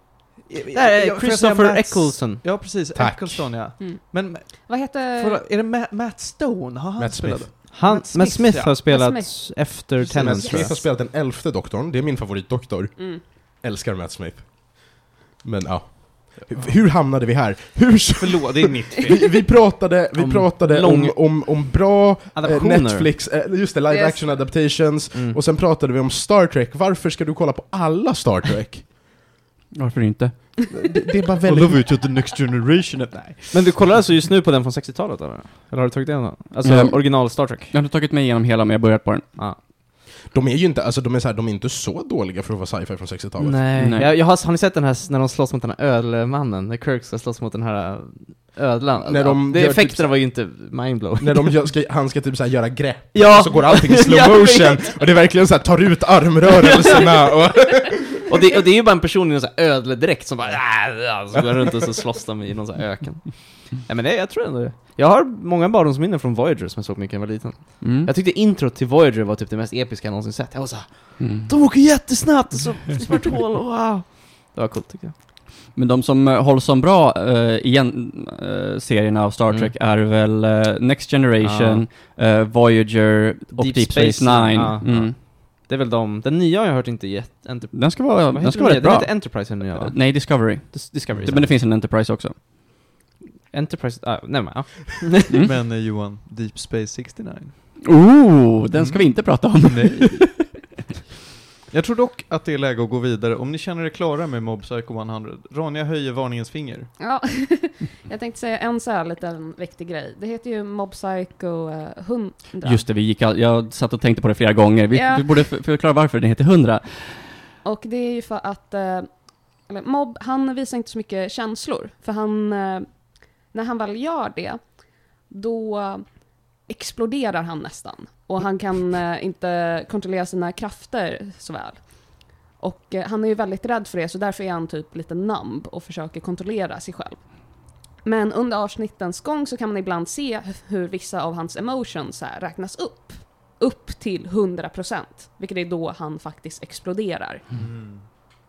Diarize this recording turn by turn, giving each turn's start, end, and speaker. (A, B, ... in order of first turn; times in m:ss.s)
0:00.5-0:08.8 A
0:00.7-0:02.4 B
0:02.9-0:03.7 C
0:03.8-0:05.4 D
0:07.0-0:07.7 C
0:07.7-0:10.8 B
0:07.9-0:10.8 D
0:10.0-0:28.9 C
0:13.0-0:13.2 D
0:18.2-0:19.1 A
0:19.0-0:19.2 B
0:20.1-0:21.6 B
0:22.3-0:23.1 B
0:23.9-0:24.4 D
0:25.1-0:25.4 B
0:29.7-0:30.5 E
0:30.7-0:31.9 C
0:31.4-0:34.0 A
0:33.5-0:37.7 B
0:36.6-0:39.4 E
0:40.2-0:43.6 C
0:43.4-0:51.6 B
0:43.8-0:44.1 E
0:49.0-0:50.5 C
0:51.2-0:58.2 C
0:53.1-0:54.9 B
0:58.2-1:15.1 B
1:07.8-1:08.1 E
1:11.2-1:11.5 E
1:15.7-1:25.1 E
1:21.4-1:21.8 B
1:23.5-1:31.6 B
1:27.7-1:32.4 E
1:33.5-1:35.3 B
1:35.3-1:37.5 A
1:37.8-1:40.4 E
1:38.7-1:40.5 A
1:41.7-1:46.9 A
1:47.0-1:52.8 D
1:52.6-1:57.2 E
1:54.9-1:55.5 D
1:57.6-2:27.4 D
2:27.5-2:28.0 A